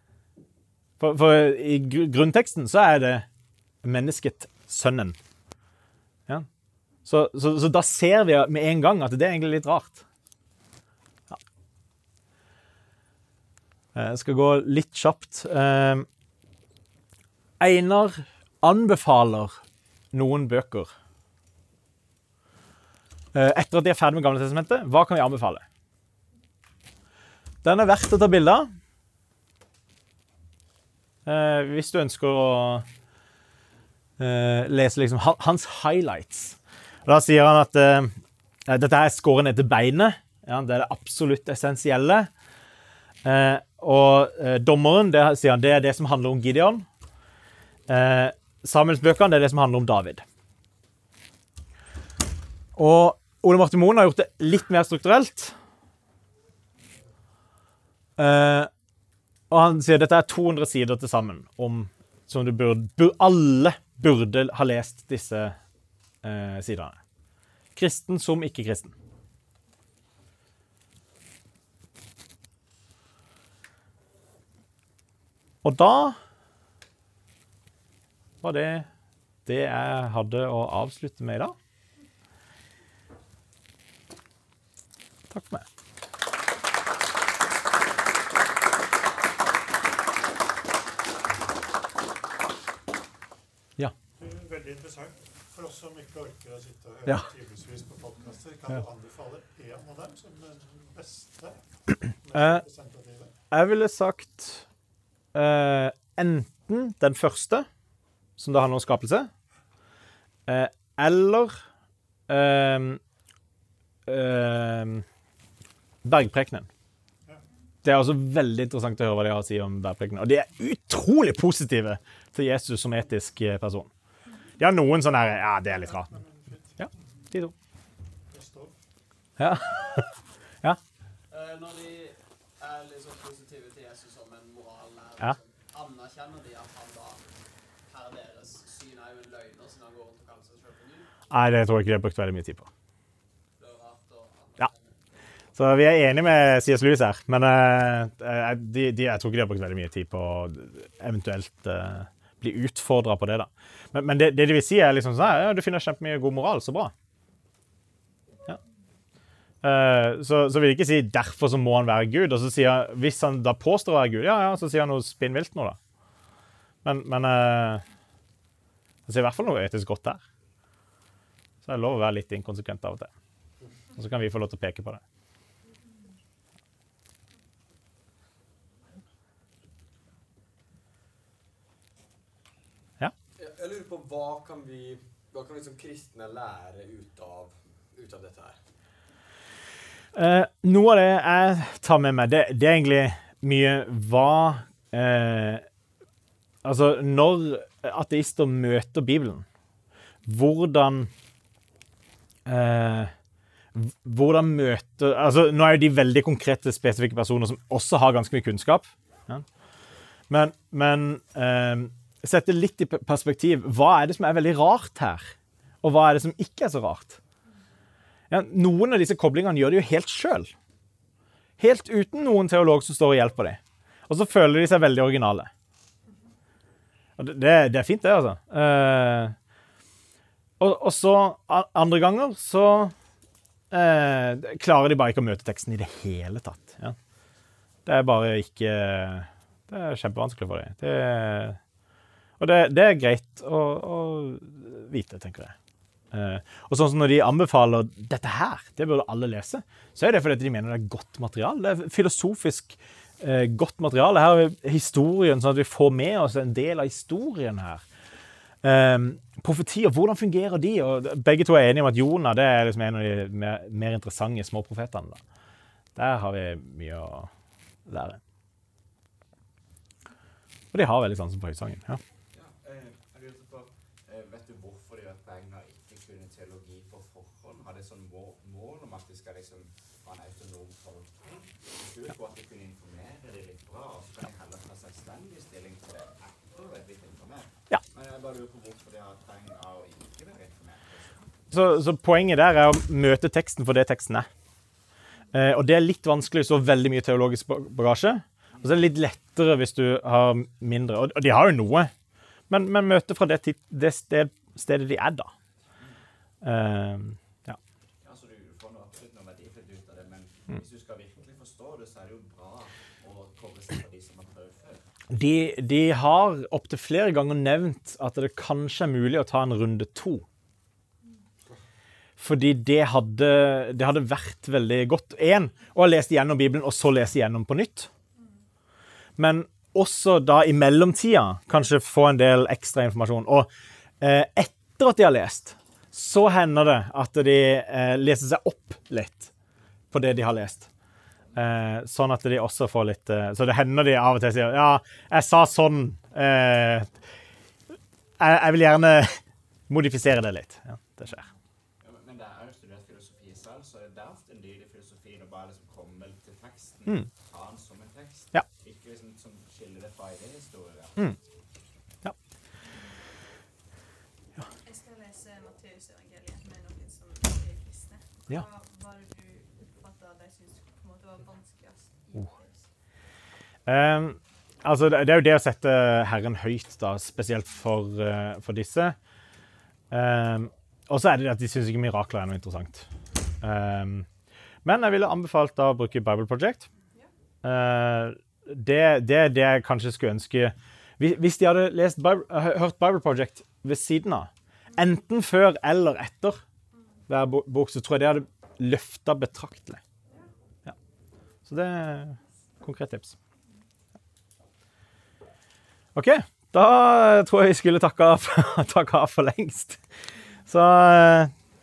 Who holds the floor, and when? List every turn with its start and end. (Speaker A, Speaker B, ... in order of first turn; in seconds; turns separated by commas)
Speaker A: 1.0-3.3, Speaker A: 3.8-5.2, Speaker A: 7.0-10.0, Speaker A: 13.9-16.1, Speaker A: 17.6-19.6, Speaker A: 20.1-20.9, Speaker A: 23.3-25.6, Speaker A: 27.6-28.7, Speaker A: 31.3-32.9, Speaker A: 34.2-38.1, Speaker A: 38.7-42.3, Speaker A: 43.2-46.9, Speaker A: 47.9-50.2, Speaker A: 52.8-55.5, Speaker A: 58.2-58.7, Speaker A: 59.5-65.5, Speaker A: 66.2-67.0, Speaker A: 67.8-69.0, Speaker A: 75.6-76.2, Speaker A: 78.4-78.9, Speaker A: 79.5-81.5, Speaker A: 85.3-85.7, Speaker B: 94.2-103.3, Speaker A: 102.3-102.6, Speaker A: 103.5-104.7, Speaker A: 105.3-107.7, Speaker A: 108.4-109.3, Speaker A: 110.5-111.5, Speaker A: 112.3-113.0, Speaker A: 114.1-115.0, Speaker A: 116.0-116.7, Speaker A: 117.8-123.9, Speaker A: 124.6-126.2, Speaker B: 125.8-127.0, Speaker A: 126.8-127.5, Speaker B: 128.3-128.7, Speaker A: 129.4-130.1, Speaker C: 131.3-137.2, Speaker C: 137.9-141.1, Speaker A: 141.3-142.7, Speaker C: 143.6-144.9, Speaker A: 145.6-156.9, Speaker A: 159.6-165.8, Speaker A: 166.8-167.8, Speaker A: 169.1-170.2, Speaker A: 171.6-173.1, Speaker A: 174.0-175.0, Speaker D: 183.4-188.6, Speaker A: 190.2-195.7, Speaker A: 196.6-199.4, Speaker A: 200.3-201.1, Speaker A: 202.5-203.1, Speaker A: 203.8-209.4, Speaker A: 210.3-217.2, Speaker A: 218.3-220.5, Speaker A: 221.6-225.5, Speaker A: 227.2-229.3, Speaker A: 230.6-232.9, Speaker A: 233.7-237.0, Speaker A: 237.9-241.6, Speaker A: 242.4-245.5, Speaker A: 246.1-257.8, Speaker A: 258.6-265.2, Speaker A: 266.0-267.3, Speaker A: 267.9-268.2, Speaker A: 270.7-272.0, Speaker E: 272.3-291.5, Speaker A: 291.5-294.3, Speaker A: 295.3-301.9, Speaker A: 302.5-305.3, Speaker A: 306.4-307.6, Speaker E: 308.0-314.9, Speaker A: 315.1-320.2, Speaker A: 322.2-327.9, Speaker A: 329.2-333.5, Speaker A: 334.0-339.3, Speaker A: 339.9-340.7, Speaker A: 341.4-346.9, Speaker A: 348.2-351.3, Speaker E: 351.8-361.0, Speaker F: 364.6-372.7, Speaker A: 373.7-379.0, Speaker A: 379.9-382.9, Speaker A: 383.4-384.1, Speaker A: 384.6-386.7, Speaker A: 387.4-396.4, Speaker A: 397.1-399.8, Speaker A: 401.5-403.1, Speaker A: 405.9-409.8, Speaker A: 410.5-411.3